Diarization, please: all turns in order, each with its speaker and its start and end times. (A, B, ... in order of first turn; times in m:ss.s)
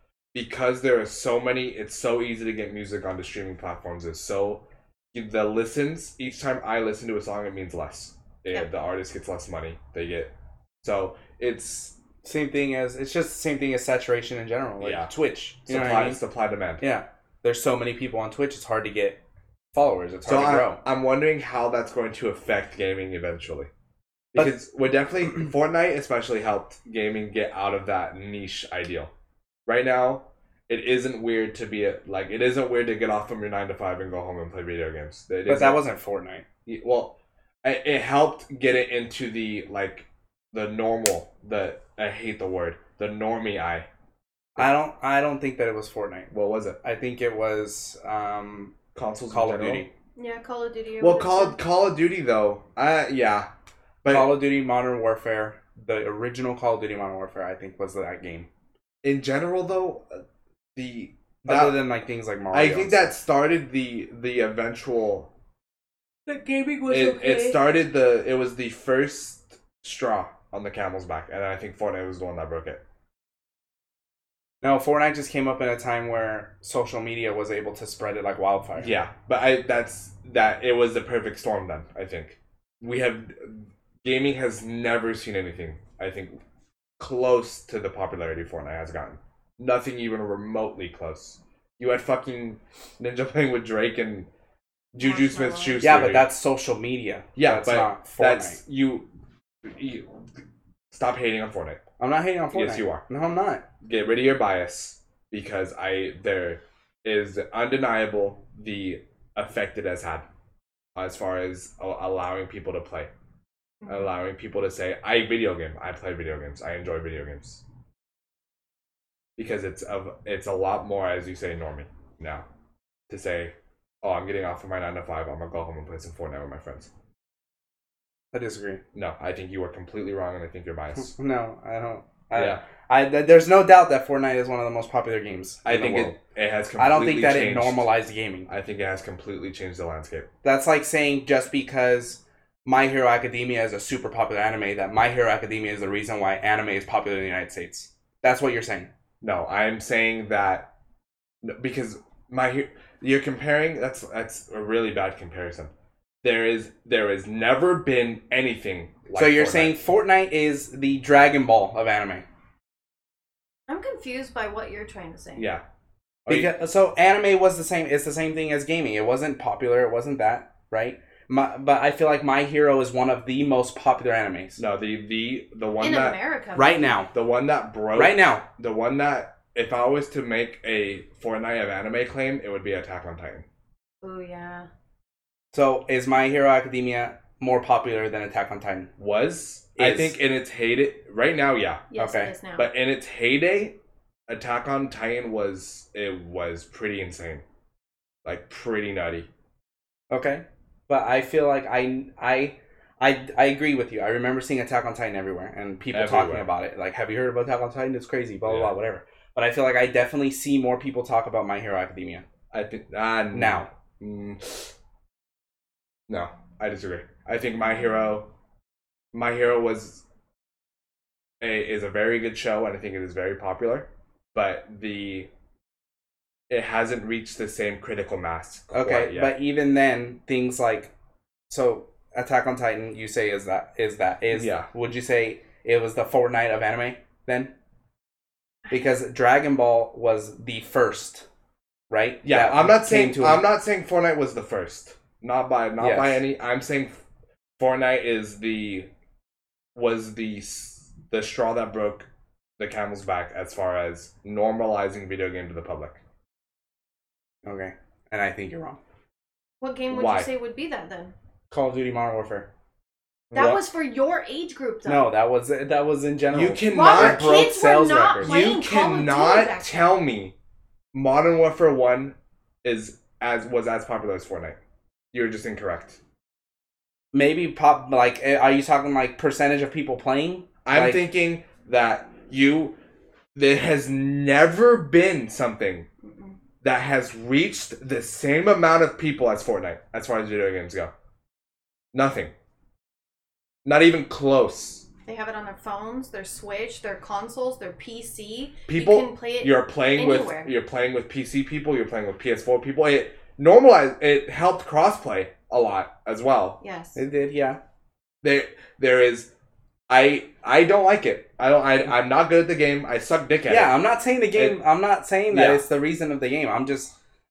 0:00.3-0:10.3 A
0:10.8-0:12.0 A
0:12.2-0:16.2 B
0:14.8-0:15.1 A
0:15.7-0:16.8 A
0:16.8-0:19.2 B
0:19.7-0:20.8 B
0:20.3-0:23.7 A
0:24.3-0:29.1 A
0:29.7-0:35.8 A
0:35.5-0:36.4 B
0:36.7-0:43.9 A
0:44.6-0:46.3 B
0:46.3-0:46.8 A
0:46.8-0:48.8 B
0:49.0-0:49.9 A
0:49.3-0:49.9 B
0:50.2-0:51.6 C
0:51.0-0:53.5 A
0:54.0-0:54.3 A
0:54.1-0:58.5 B
0:59.0-1:00.2 A
1:00.8-1:01.8 A
1:01.4-1:03.2 B
1:02.5-1:05.3 A
1:06.3-1:07.6 B
1:06.9-1:12.8 A
1:14.6-1:19.0 B
1:18.8-1:26.4 A
1:27.0-1:34.3 A
1:34.9-1:36.3 A
1:35.0-1:35.8 C
1:35.8-1:38.6 B
1:37.4-1:39.1 A
1:39.6-1:40.1 A
1:40.9-1:41.8 A
1:42.0-1:43.6 B
1:42.5-1:43.0 A
1:43.8-1:50.3 A
1:51.0-1:53.1 A
1:53.8-1:54.1 C
1:53.9-1:57.6 A
1:59.4-2:02.5 A
2:03.1-2:06.9 A
2:08.3-2:08.8 B
2:08.9-2:11.1 A
2:11.0-2:16.2 B
2:12.3-2:12.6 A
2:15.6-2:17.9 A
2:16.8-2:18.5 B
2:18.5-2:20.3 A
2:20.4-2:28.9 B
2:29.2-2:30.7 A
2:31.4-2:35.7 A
2:36.2-2:39.8 A
2:39.2-2:42.2 B
2:43.7-2:45.5 C
2:45.4-2:45.6 A
2:46.3-2:46.5 A
2:46.3-2:54.6 B
2:54.6-2:56.2 A
2:55.8-2:56.9 C
2:56.6-2:57.1 B
2:57.1-3:03.5 A
2:57.9-2:58.4 B
3:04.0-3:04.7 C
3:05.5-3:08.9 B
3:09.0-3:11.9 A
3:09.8-3:10.2 B
3:11.9-3:12.7 C
3:12.0-3:12.3 B
3:12.6-3:13.8 A
3:14.3-3:17.4 A
3:18.2-3:19.3 A
3:20.1-3:32.2 B
3:25.9-3:26.5 A
3:28.5-3:28.7 A
3:32.5-3:34.7 A
3:33.3-3:33.7 B
3:36.1-3:38.3 A
3:39.1-3:40.0 A
3:41.4-3:45.3 A
3:46.5-3:49.3 A
3:48.7-3:50.9 B
3:51.5-3:57.5 B
3:54.3-3:54.7 A
3:58.7-4:01.3 B
4:01.9-4:03.4 B
4:02.2-4:07.0 A
4:05.8-4:06.2 B
4:07.6-4:08.9 A
4:09.8-4:12.1 A
4:12.6-4:16.0 A
4:17.4-4:18.8 B
4:19.6-4:21.1 C
4:19.9-4:20.3 A
4:21.5-4:22.5 B
4:23.3-4:23.6 B
4:23.3-4:25.1 C
4:24.8-4:28.4 B
4:26.3-4:27.4 A
4:26.7-4:29.8 C
4:28.2-4:30.4 A
4:30.9-4:34.6 A
4:35.1-4:36.0 A
4:37.1-4:41.0 B
4:40.6-4:42.8 A
4:43.4-4:45.9 A
4:46.0-4:46.4 C
4:46.6-4:50.9 A
4:51.9-4:52.3 A
4:53.6-4:54.9 A
4:55.1-5:00.5 C
4:58.7-5:06.6 A
5:06.6-5:07.0 C
5:07.0-5:07.6 B
5:08.2-5:09.3 A
5:09.9-5:13.8 A
5:13.5-5:17.0 B
5:14.3-5:14.6 A
5:15.3-5:15.6 A